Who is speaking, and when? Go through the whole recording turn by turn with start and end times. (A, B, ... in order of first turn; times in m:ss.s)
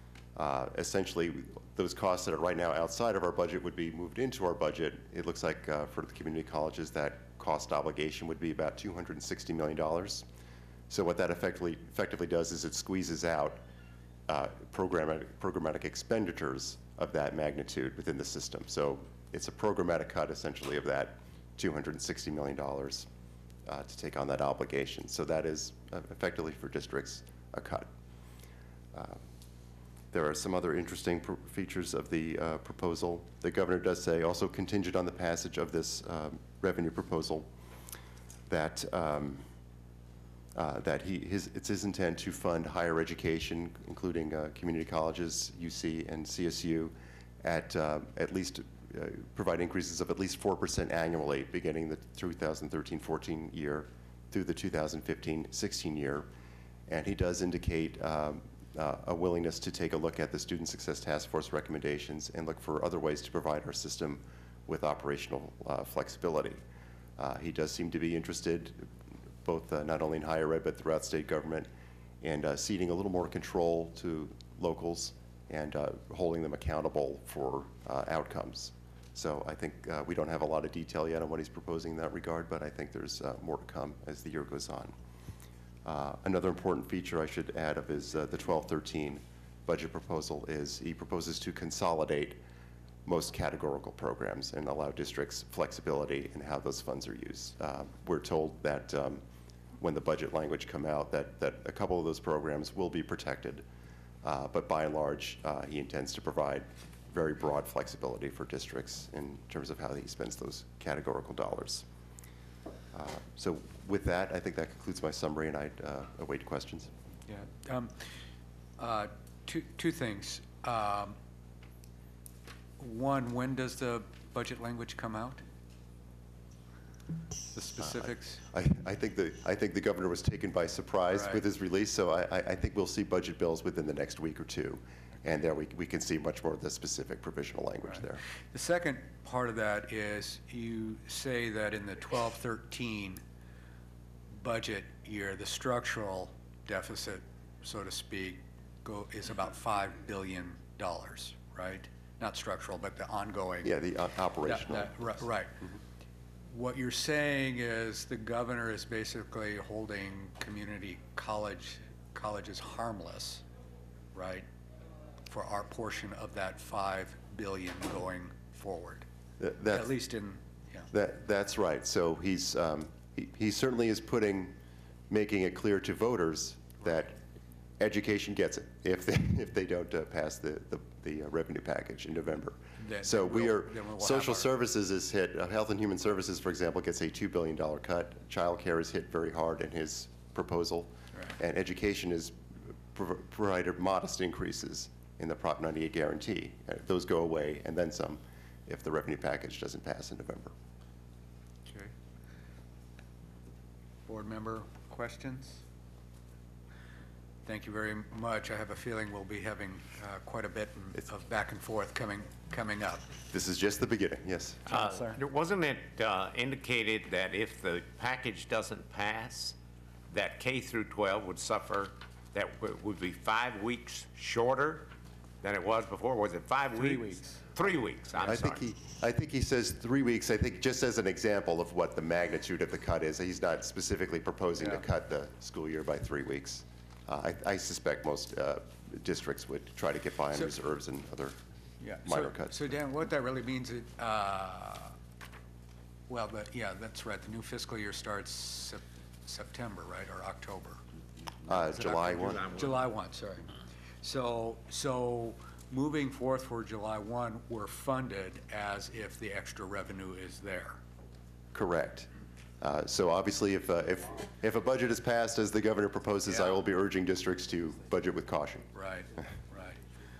0:00.4-0:10.2 A
0:10.9-0:13.6 A
0:14.3-0:23.1 A
0:23.6-0:27.9 A
0:28.9-0:29.2 A
0:30.1-0:37.5 A
0:38.5-0:39.4 A
0:40.5-0:56.3 A
0:56.9-1:06.6 A
1:07.2-1:08.9 A
1:09.4-1:11.7 A
1:12.2-1:24.9 A
1:25.8-1:32.4 A
1:33.0-1:39.2 A
1:39.8-1:43.6 A
1:44.2-1:51.8 A
1:52.9-1:56.9 A
1:57.3-1:57.9 B
1:58.8-2:01.2 B
2:02.8-2:05.4 B
2:07.5-2:08.4 B
2:07.8-2:18.2 A
2:11.1-2:11.4 B
2:18.5-2:23.2 B
2:24.4-2:33.7 B
2:33.6-2:35.1 A
2:34.4-2:35.5 B
2:36.5-2:43.4 B
2:44.1-2:44.5 B
2:45.3-2:49.0 B
2:49.4-2:49.9 A
2:49.7-2:50.9 B
2:50.9-2:54.6 A
2:55.1-2:57.2 A
2:57.8-3:12.3 A
3:02.8-3:04.5 B
3:12.9-3:20.5 A
3:21.7-3:21.9 B
3:24.1-3:25.6 B
3:27.4-3:33.1 B
3:33.3-3:34.6 A
3:34.7-3:39.6 C
3:34.7-3:35.2 B
3:40.1-3:44.9 C
3:45.4-3:48.6 C
3:47.0-3:47.4 B
3:48.2-4:01.4 A
4:01.8-4:05.0 B
4:02.0-4:02.6 A
4:06.1-4:10.8 B
4:11.5-4:12.5 A
4:11.5-4:13.5 B
4:12.2-4:12.8 C
4:14.0-4:20.8 B
4:21.5-4:22.1 A
4:22.6-4:28.7 A
4:26.3-4:26.5 B
4:28.7-4:29.8 B